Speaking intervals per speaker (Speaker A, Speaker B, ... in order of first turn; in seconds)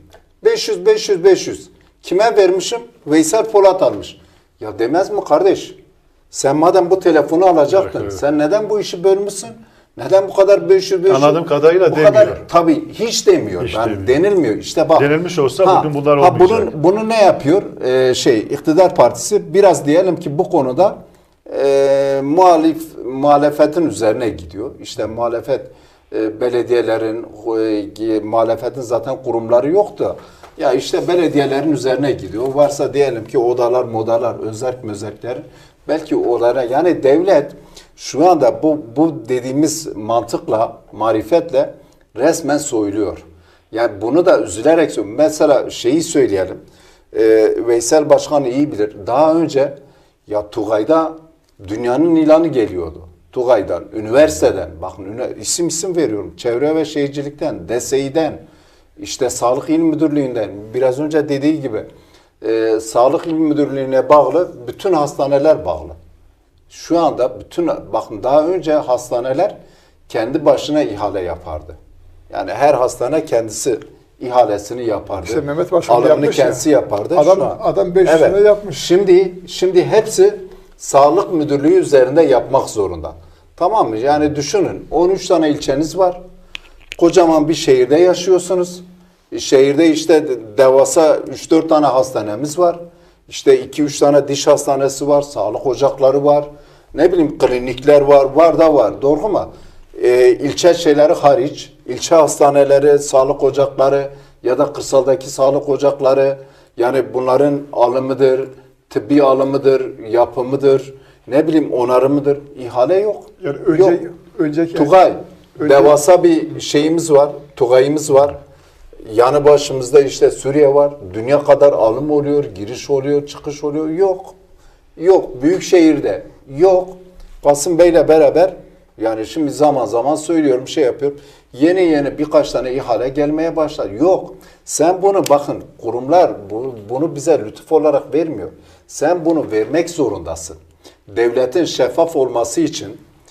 Speaker A: 0.4-5.8, 6.3-15.1, 15.6-46.6, 47.1-58.4, 59.0-61.9, 62.4-66.0, 66.7-69.5, 70.1-71.8, 72.3-86.2, 87.0-114.0, 114.8-118.4, 119.1-124.3, 125.0-140.6, 141.1-143.0
Speaker B: 7.7-8.2, 11.1-12.4, 13.6-14.2, 14.9-16.7
Speaker C: 75.2-78.8, 113.4-115.0, 115.6-116.0